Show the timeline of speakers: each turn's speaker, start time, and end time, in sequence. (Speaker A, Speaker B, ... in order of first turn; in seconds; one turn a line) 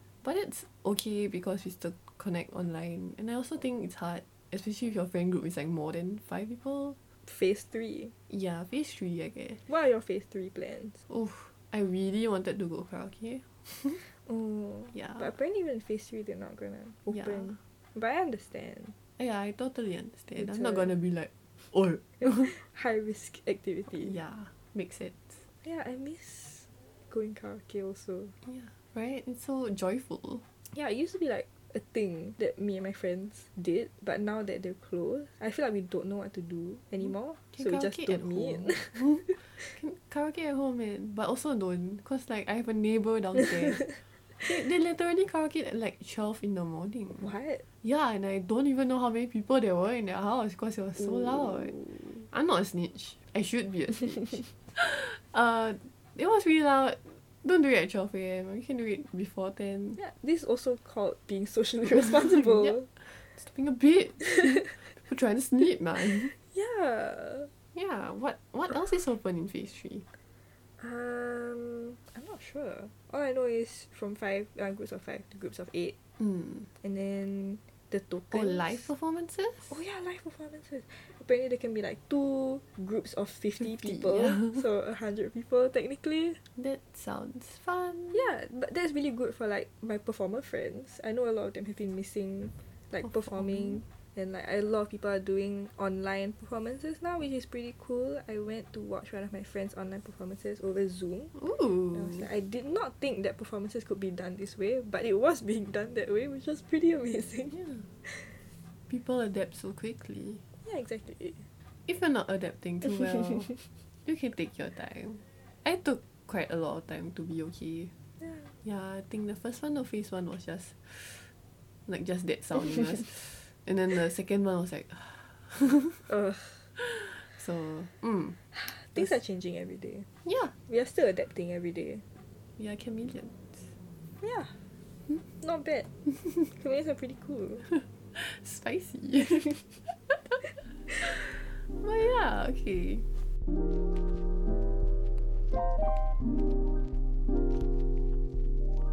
Speaker A: 0.2-7.0
Speaker B: 7.2-8.1
Speaker A: 8.3-9.6
Speaker B: 9.7-11.0
Speaker A: 11.1-14.0
Speaker B: 14.0-18.9
Speaker A: 14.9-15.3
Speaker A: 17.1-17.6
Speaker A: 19.2-22.5
Speaker B: 20.4-20.9
Speaker B: 22.2-24.2
Speaker A: 23.9-25.4
Speaker B: 25.6-28.3
Speaker A: 28.4-30.4
Speaker B: 30.6-39.7
Speaker A: 37.0-51.8
Speaker B: 47.2-47.6
Speaker B: 51.0-52.2
Speaker A: 52.3-60.0
Speaker B: 60.0-62.9
Speaker A: 61.9-66.3
Speaker B: 66.3-67.5
Speaker A: 67.7-70.1
Speaker B: 70.8-75.9
Speaker A: 76.2-76.7
Speaker B: 76.8-78.9
Speaker A: 78.3-79.7
Speaker B: 79.7-86.4
Speaker A: 83.6-84.6
Speaker A: 86.5-88.3
Speaker B: 88.1-101.3
Speaker A: 93.0-93.8
Speaker A: 101.3-102.3
Speaker B: 101.9-108.4
Speaker A: 107.5-107.9
Speaker A: 108.9-110.4
Speaker B: 110.6-111.5
Speaker A: 111.9-113.5
Speaker A: 114.0-117.9
Speaker B: 118.2-118.5
Speaker A: 118.6-121.3
Speaker A: 121.9-126.1
Speaker B: 126.1-126.7
Speaker A: 126.8-128.4
Speaker B: 128.5-130.1
Speaker A: 130.2-130.5
Speaker B: 130.6-132.0
Speaker A: 132.6-133.7
Speaker B: 134.2-134.6
Speaker B: 135.3-137.7
Speaker A: 138.1-143.1